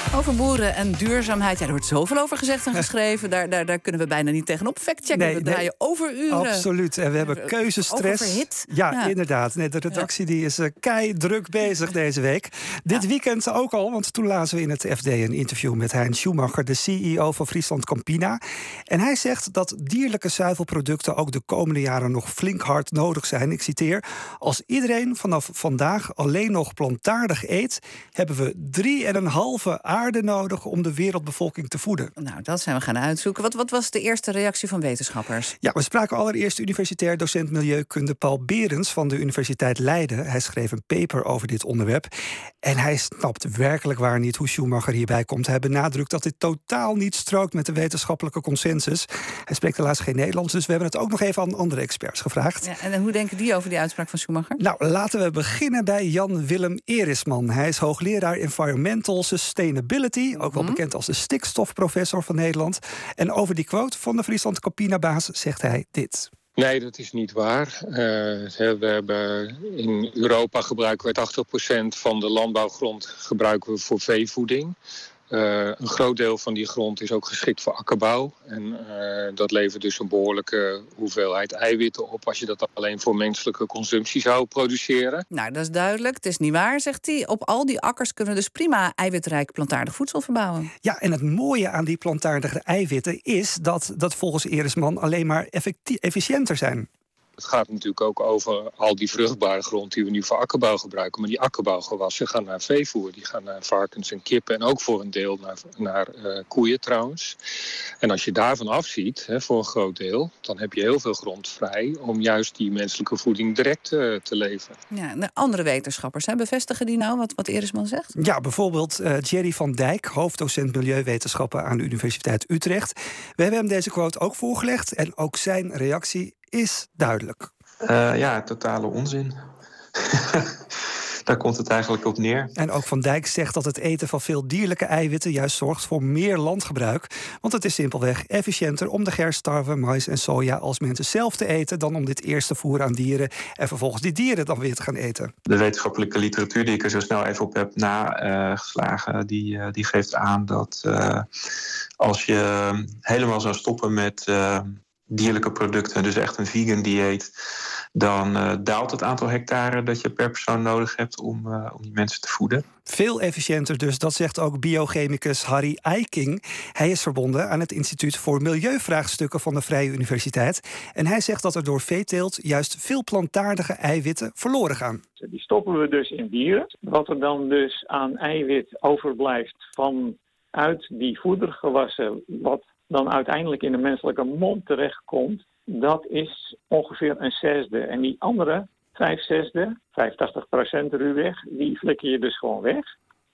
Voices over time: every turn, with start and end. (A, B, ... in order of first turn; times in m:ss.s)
0:00.1-0:06.6 A
0:05.1-0:05.7 B
0:06.3-0:32.1 B
0:07.2-0:09.1 A
0:32.2-0:35.5 A
0:35.6-0:42.1 B
0:42.6-0:52.7 B
0:52.6-0:54.6 A
0:54.6-1:06.3 B
1:00.4-1:00.8 A
1:06.6-1:14.7 C
1:15.3-1:25.2 C
1:25.3-1:30.7 A
1:30.8-1:36.9 B
1:37.4-1:47.4 C
1:48.0-1:54.8 C
1:54.9-1:58.1 A
1:58.2-2:07.5 B
2:07.9-2:09.3 D
2:10.0-2:10.6 D
2:11.3-2:12.5 D
2:12.6-2:25.3 B
2:25.6-2:31.2 D
2:32.0-2:37.3 D
2:38.0-2:42.6 D
2:42.9-2:55.0 B
2:55.2-3:12.9 E